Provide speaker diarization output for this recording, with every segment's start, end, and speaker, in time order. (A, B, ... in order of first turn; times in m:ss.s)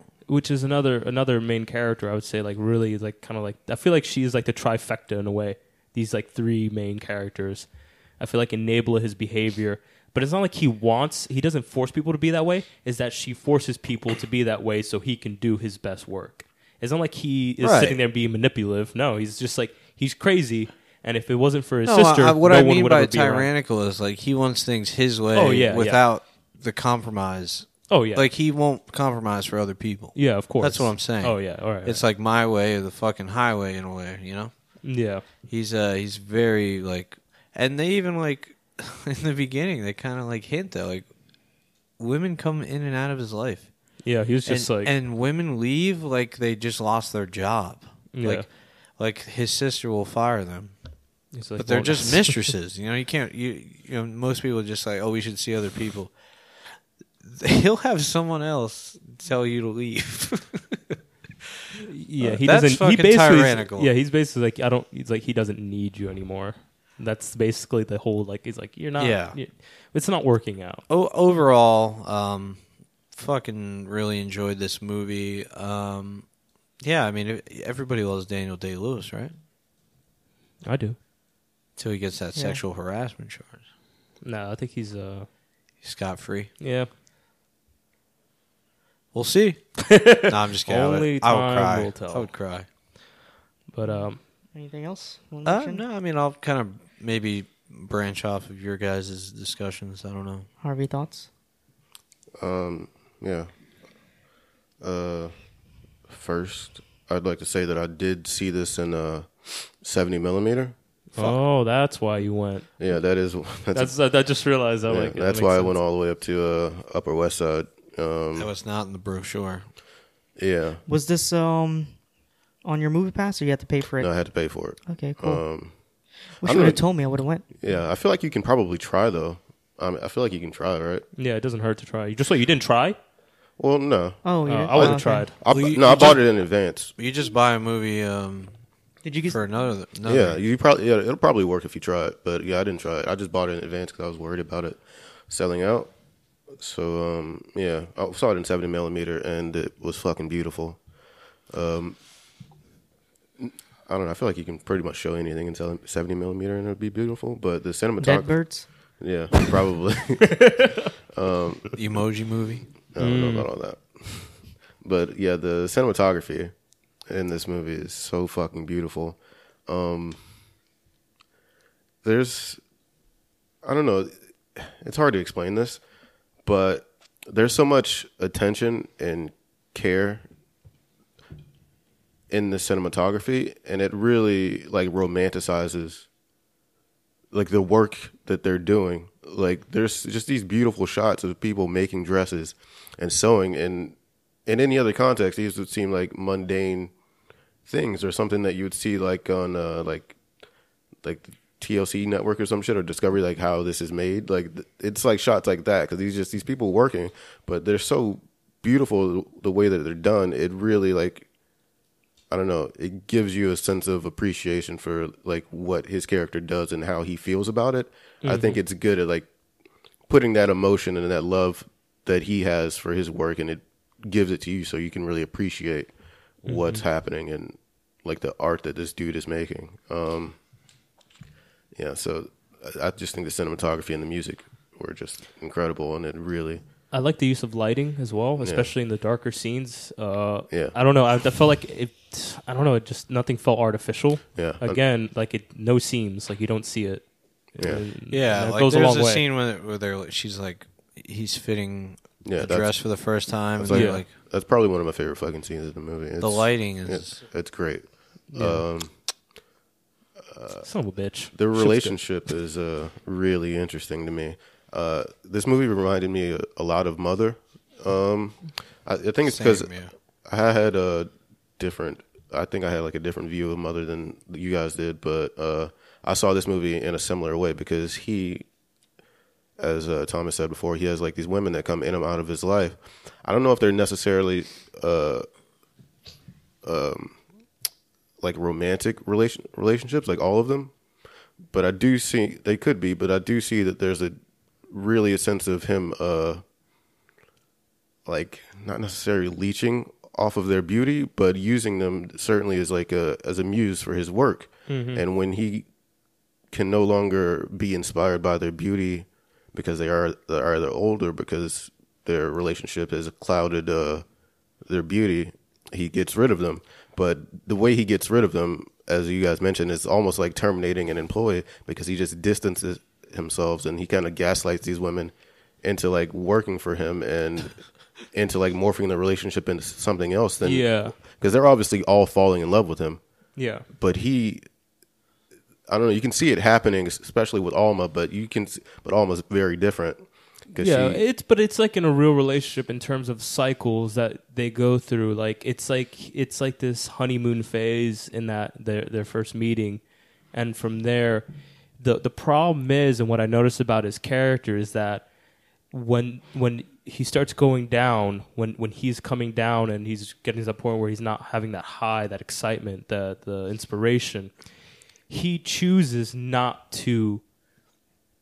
0:00.3-0:07.7 A
0:08.2-0:23.5 A
0:17.6-0:18.0 B
0:21.8-0:34.5 B
0:25.3-0:26.0 A
0:27.9-0:28.3 A
0:30.1-0:32.0 A
0:34.8-0:35.2 A
0:35.4-0:41.1 B
0:42.0-0:43.7 B
0:44.0-0:44.9 A
0:44.4-0:50.8 B
0:48.1-0:48.5 A
0:51.3-0:52.5 A
0:51.6-1:01.0 B
1:01.8-1:10.8 A
1:02.2-1:03.9 B
1:09.0-1:09.4 B
1:10.9-1:16.3 B
1:16.8-1:19.3 B
1:20.6-1:21.0 A
1:21.8-1:23.6 B
1:22.3-1:22.6 C
1:24.2-1:25.3 A
1:25.8-1:26.5 B
1:26.6-1:26.9 A
1:29.1-1:32.7 B
1:29.9-1:32.3 A
1:33.7-1:34.2 A
1:33.8-1:35.8 C
1:35.4-1:40.5 B
1:40.6-1:41.3 C
1:42.4-1:43.5 D
1:44.8-1:45.3 D
1:46.1-1:51.4 D
1:51.1-1:52.9 A
1:52.8-1:54.0 D
1:53.7-1:55.8 A
1:54.9-1:58.5 D
1:58.4-1:59.7 B
2:00.4-2:00.8 D
2:00.8-2:02.0 C
2:02.6-2:04.1 C
2:04.0-2:05.7 D
2:04.8-2:05.4 C
2:06.3-2:07.4 C
2:06.4-2:06.8 D
2:07.5-2:11.0 D
2:11.2-2:13.0 A
2:13.6-2:16.9 D
2:14.2-2:15.3 C
2:14.4-2:15.4 A
2:15.5-2:16.3 B
2:17.0-2:18.6 B
2:19.0-2:19.4 C
2:19.3-2:20.4 B
2:20.0-2:25.9 D
2:26.5-2:30.8 D
2:31.5-2:32.0 D
2:33.4-2:41.7 D
2:38.0-2:38.7 C
2:41.8-2:42.7 B
2:42.9-2:46.5 D
2:43.0-2:43.5 A
2:47.0-2:50.2 D
2:52.0-2:52.6 D
2:53.6-2:55.8 D
2:56.4-3:00.2 D
3:02.3-3:06.1 D
3:07.3-3:16.9 D
3:17.6-3:20.2 D
3:21.0-3:31.3 D
3:32.3-3:39.3 D
3:38.2-3:38.6 A
3:40.1-3:45.9 D
3:46.4-3:50.4 D
3:46.4-3:46.8 A
3:51.7-3:56.6 D
3:56.9-4:09.2 A
3:58.4-3:58.7 D
4:00.5-4:00.7 D
4:04.3-4:04.8 D
4:07.6-4:07.8 D
4:08.1-4:14.1 B
4:12.2-4:18.9 D
4:13.7-4:14.0 A
4:16.2-4:17.2 B
4:18.3-4:18.6 A
4:20.3-4:20.7 D
4:20.6-4:22.2 A
4:21.3-4:38.4 D
4:29.2-4:29.9 B
4:39.6-4:45.2 D
4:46.6-4:47.2 D
4:48.2-4:50.7 D
4:51.5-4:54.2 D
4:54.7-4:56.4 D
4:58.0-5:05.7 D
5:04.7-5:05.0 A
5:06.5-5:14.0 D
5:14.6-5:33.0 D
5:30.4-5:30.9 A
5:33.4-5:33.6 A
5:33.8-5:34.4 D
5:35.7-5:41.0 D
5:40.6-5:51.3 A
5:51.8-5:55.1 A
5:55.7-6:04.3 A
6:05.1-6:07.2 A